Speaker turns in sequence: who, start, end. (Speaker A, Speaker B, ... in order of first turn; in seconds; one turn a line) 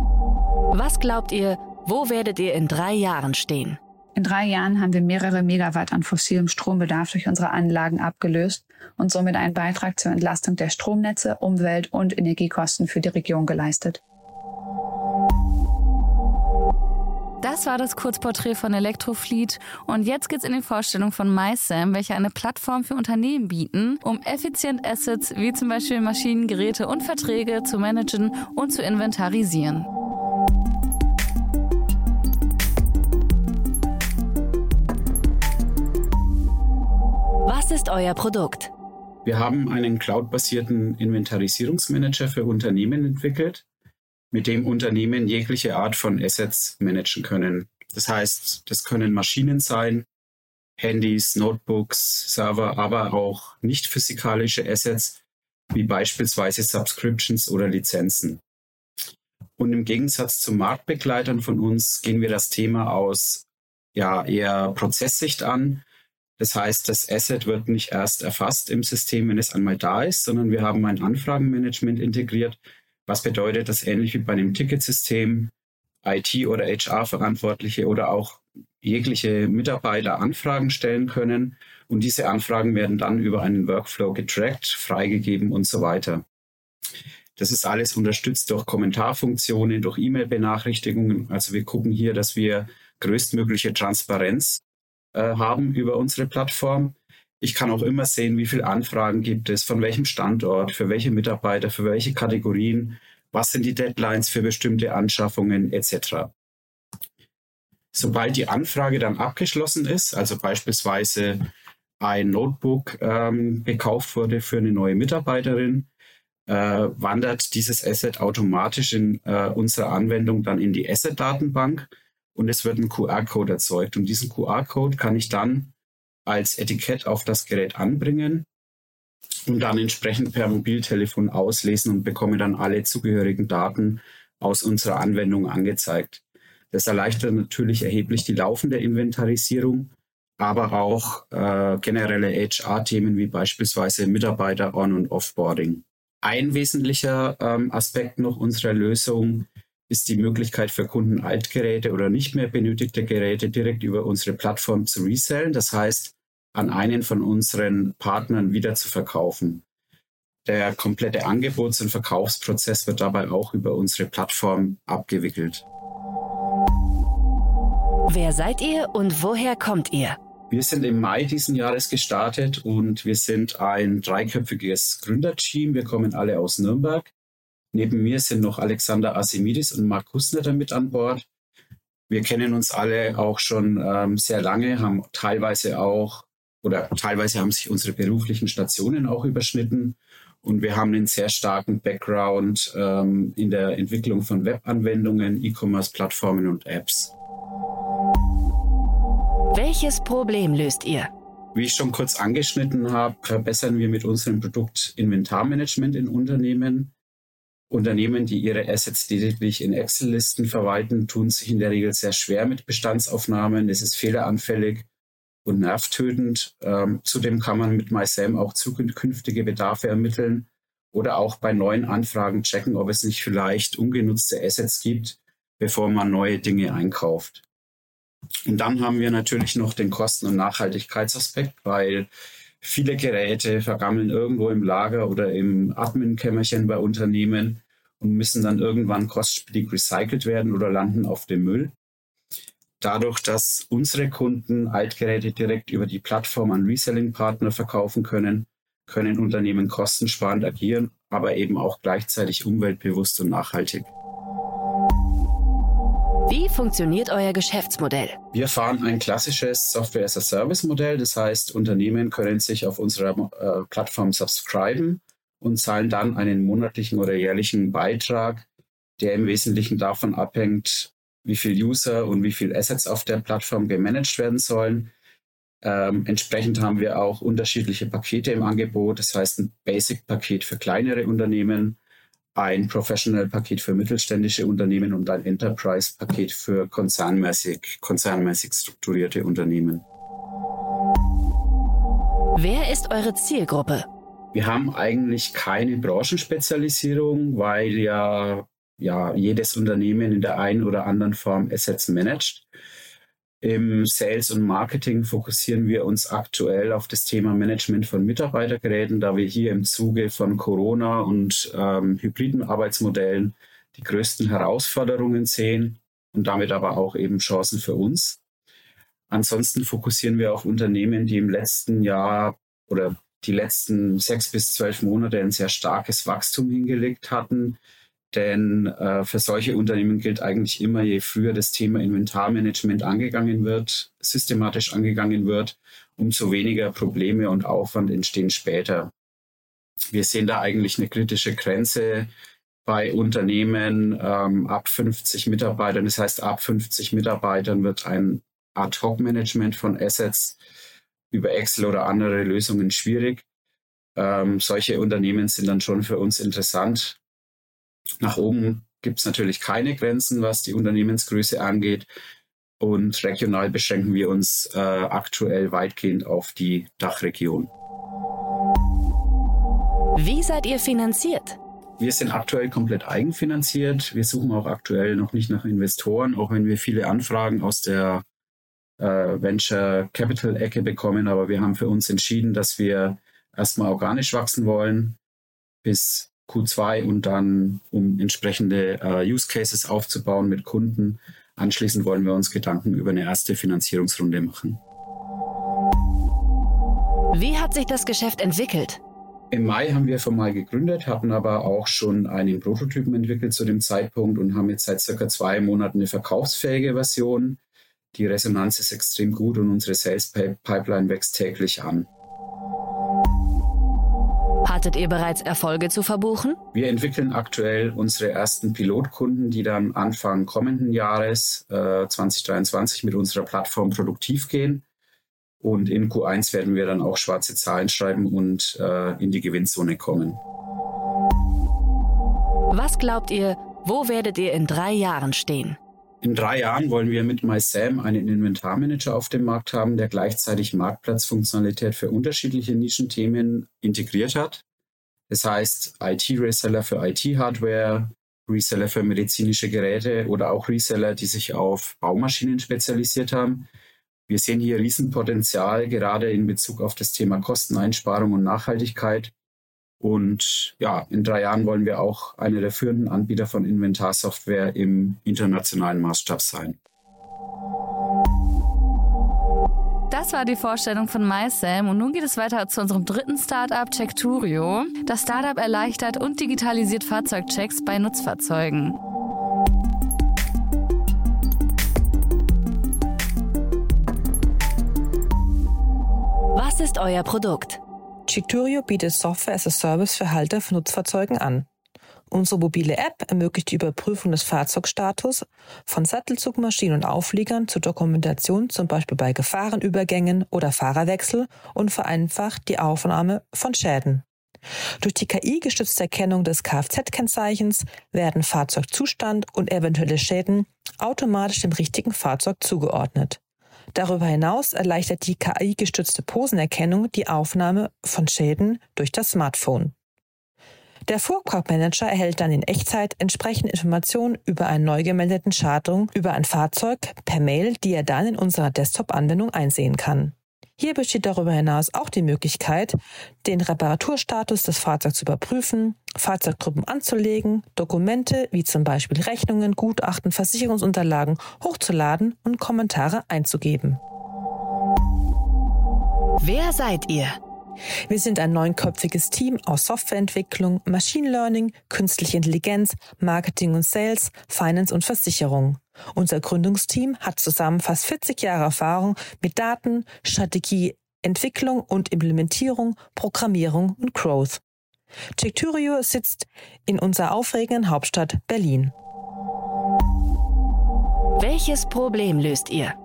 Speaker A: 0.7-3.8
Speaker B: 4.1-14.0
Speaker C: 17.4-29.9
Speaker A: 37.5-38.7
Speaker D: 39.2-43.6
Speaker D: 44.3-50.1
Speaker D: 50.8-55.2
Speaker D: 55.7-58.4
Speaker D: 59.6-65.8
Speaker D: 66.4-75.5
Speaker D: 76.0-86.2
Speaker D: 87.4-94.6
Speaker D: 95.1-106.3
Speaker D: 107.9-111.5
Speaker D: 112.0-115.9
Speaker D: 116.5-125.7
Speaker D: 126.3-128.5
Speaker D: 129.5-159.6
Speaker D: 160.4-165.7
Speaker A: 168.1-170.2
Speaker D: 170.5-177.1
Speaker D: 177.7-181.2
Speaker D: 182.1-197.1
Speaker A: 199.5-201.1
Speaker D: 201.6-206.9
Speaker D: 207.7-214.9
Speaker D: 215.4-227.4
Speaker D: 228.5-232.1
Speaker D: 232.6-241.8
Speaker D: 242.8-253.9
Speaker A: 256.3-258.2
Speaker D: 258.3-268.5
Speaker D: 269.0-274.9
Speaker D: 275.6-281.8
Speaker D: 282.4-289.9
Speaker A: 292.4-293.9
Speaker D: 294.3-302.5
Speaker D: 303.4-318.2
Speaker D: 319.1-327.6
Speaker D: 328.1-338.9
Speaker D: 339.9-342.1
Speaker D: 342.7-350.4
Speaker D: 351.1-353.2
Speaker D: 354.0-357.0
Speaker D: 358.0-361.9
Speaker D: 362.6-367.5
Speaker A: 370.0-371.4
Speaker D: 371.8-378.0
Speaker D: 378.8-385.0
Speaker D: 385.6-394.6
Speaker A: 397.1-398.8
Speaker D: 399.3-407.4
Speaker D: 407.9-411.9
Speaker A: 414.4-416.4
Speaker D: 416.5-424.6
Speaker D: 425.4-430.2
Speaker A: 432.5-435.6
Speaker D: 436.0-444.4
Speaker D: 445.1-453.5
Speaker D: 454.1-459.1
Speaker D: 459.8-466.6
Speaker C: 469.9-478.8
Speaker A: 486.4-487.6
Speaker E: 488.1-491.5
Speaker E: 492.1-504.1
Speaker E: 504.8-513.2
Speaker E: 513.7-519.8
Speaker E: 520.9-543.8
Speaker A: 546.2-547.2
Speaker E: 547.9-564.4
Speaker E: 565.2-568.7
Speaker A: 571.2-572.8